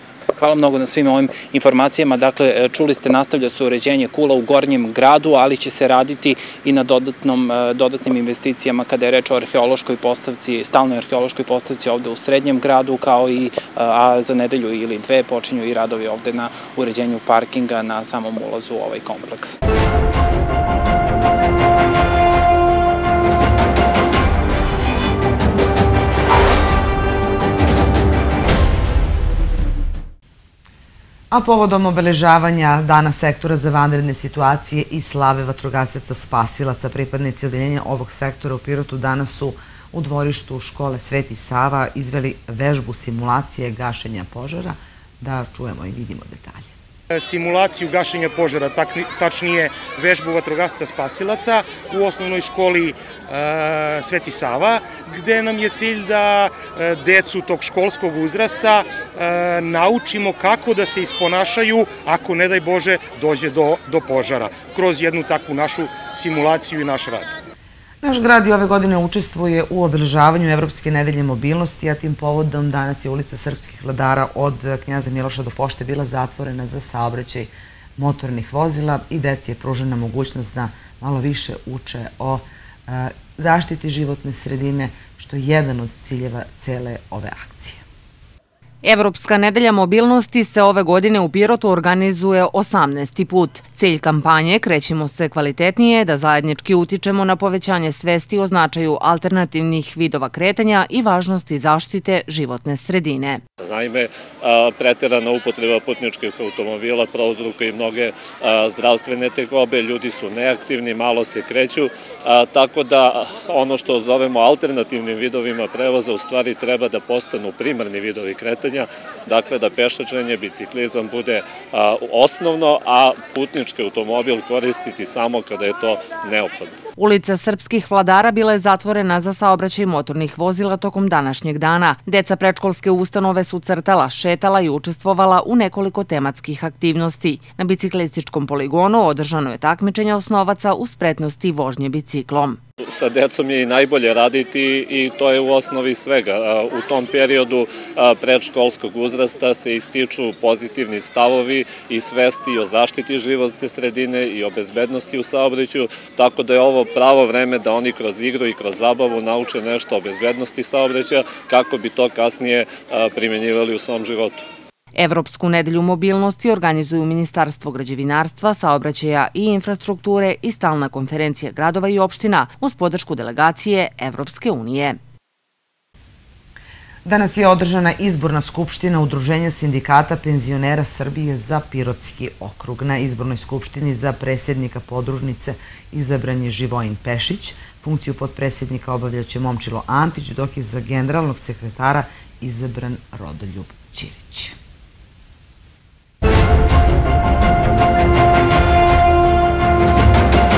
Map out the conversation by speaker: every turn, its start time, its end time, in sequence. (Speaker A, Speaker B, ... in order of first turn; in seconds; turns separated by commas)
Speaker A: 0.3-19.6, Speaker B: 31.3-46.7, Speaker C: 47.1-67.4, Speaker B: 68.0-87.8, Speaker D: 88.8-103.4, Speaker E: 103.6-126.8, Speaker D: 127.0-142.6, Speaker E: 142.8-164.4, Speaker D: 164.9-175.0, Speaker B: 177.0-194.6